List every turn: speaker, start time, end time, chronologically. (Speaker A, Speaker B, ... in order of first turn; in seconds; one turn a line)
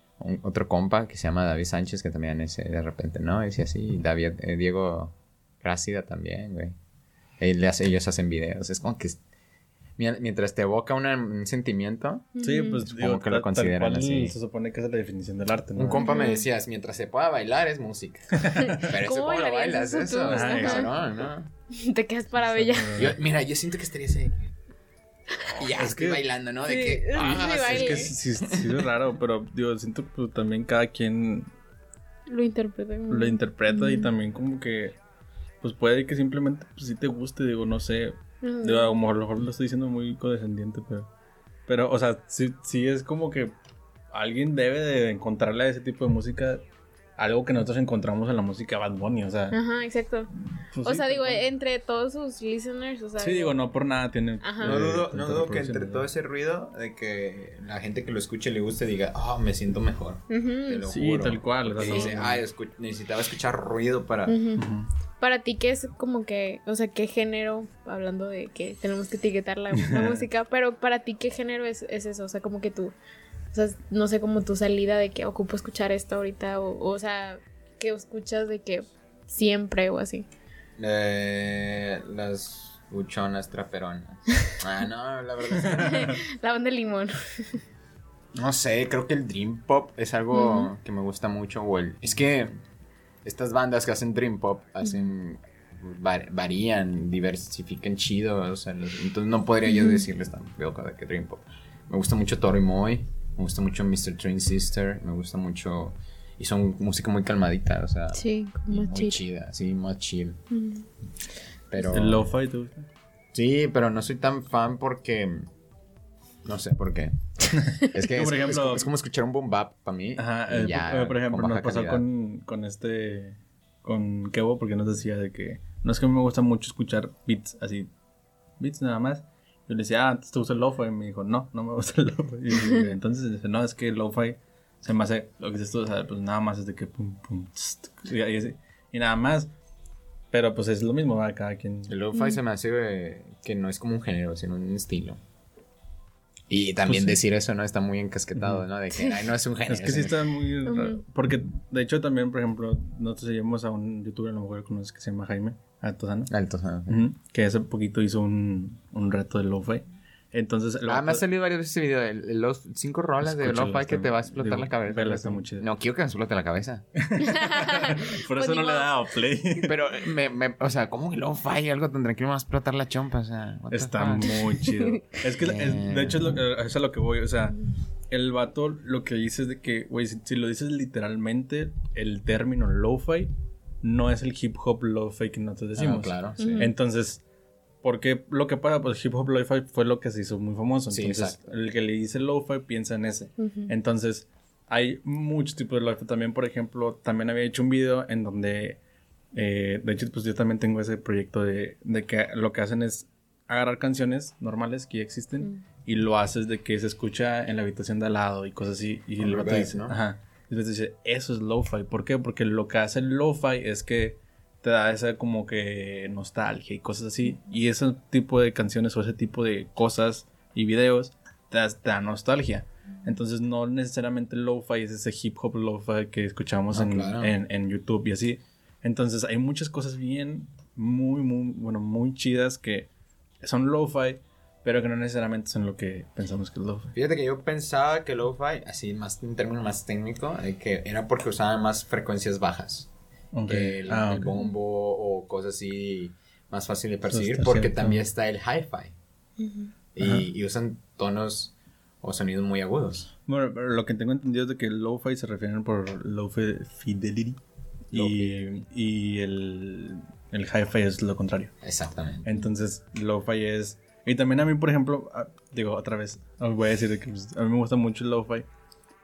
Speaker A: 0.2-6.8
Speaker A: 7.4-9.2
Speaker A: 10.0-14.3
Speaker B: 12.4-12.8
Speaker C: 12.4-16.1
Speaker A: 15.8-21.5
Speaker B: 15.9-16.5
Speaker C: 18.3-18.9
Speaker B: 18.6-20.9
Speaker C: 20.3-20.9
Speaker B: 21.7-23.1
Speaker C: 22.4-23.2
Speaker A: 23.0-24.6
Speaker A: 25.5-28.9
Speaker C: 25.8-26.2
Speaker B: 26.7-28.1
Speaker C: 27.2-31.5
Speaker B: 32.3-34.1
Speaker C: 33.1-35.0
Speaker C: 35.6-41.1
Speaker B: 38.4-39.0
Speaker C: 41.7-43.5
Speaker C: 44.1-46.6
Speaker C: 47.2-49.6
Speaker B: 49.5-50.3
Speaker C: 50.7-51.4
Speaker B: 50.8-53.5
Speaker C: 53.2-56.1
Speaker B: 54.4-54.8
Speaker A: 54.6-64.4
Speaker B: 60.3-60.9
Speaker C: 60.9-62.4
Speaker B: 61.8-62.1
Speaker B: 64.3-64.6
Speaker C: 64.6-64.9
Speaker B: 65.2-72.9
Speaker C: 69.8-70.2
Speaker B: 73.5-80.3
Speaker A: 80.8-86.2
Speaker C: 85.6-86.2
Speaker B: 85.6-87.6
Speaker A: 88.4-92.5
Speaker B: 90.3-90.7
Speaker A: 93.2-110.4
Speaker B: 99.7-100.0
Speaker B: 108.1-109.2
Speaker B: 110.5-110.9
Speaker A: 111.7-112.3
Speaker C: 111.8-112.9
Speaker A: 113.3-115.5
Speaker A: 116.5-122.0
Speaker C: 117.5-118.9
Speaker C: 120.2-127.9
Speaker C: 128.6-139.5
Speaker B: 132.6-132.9
Speaker C: 140.3-142.0
Speaker A: 141.9-145.2
Speaker B: 142.2-142.4
Speaker A: 146.5-150.3
Speaker C: 146.9-147.2
Speaker C: 148.4-148.6
Speaker B: 148.9-149.2
Speaker C: 149.7-156.3
Speaker B: 150.7-151.0
Speaker A: 156.3-157.1
Speaker C: 156.9-161.2
Speaker A: 160.9-166.9
Speaker C: 163.2-165.7
Speaker C: 167.0-169.7
Speaker B: 167.3-169.1
Speaker A: 169.6-174.4
Speaker C: 173.7-177.6
Speaker B: 174.6-175.0
Speaker A: 175.4-176.4
Speaker C: 178.1-187.2
Speaker A: 185.8-186.7
Speaker B: 186.4-186.7
Speaker C: 187.8-198.8
Speaker A: 190.9-191.5
Speaker B: 193.4-193.7
Speaker C: 199.3-232.9
Speaker A: 209.2-209.9
Speaker A: 226.7-227.4
Speaker C: 233.4-236.9
Speaker A: 236.9-242.9
Speaker C: 243.3-244.4
Speaker A: 243.5-248.9
Speaker C: 247.1-248.1
Speaker B: 249.4-249.7
Speaker A: 249.9-253.1
Speaker C: 253.3-257.4
Speaker A: 257.9-258.5
Speaker C: 257.9-261.6
Speaker A: 261.6-262.3
Speaker C: 262.2-268.5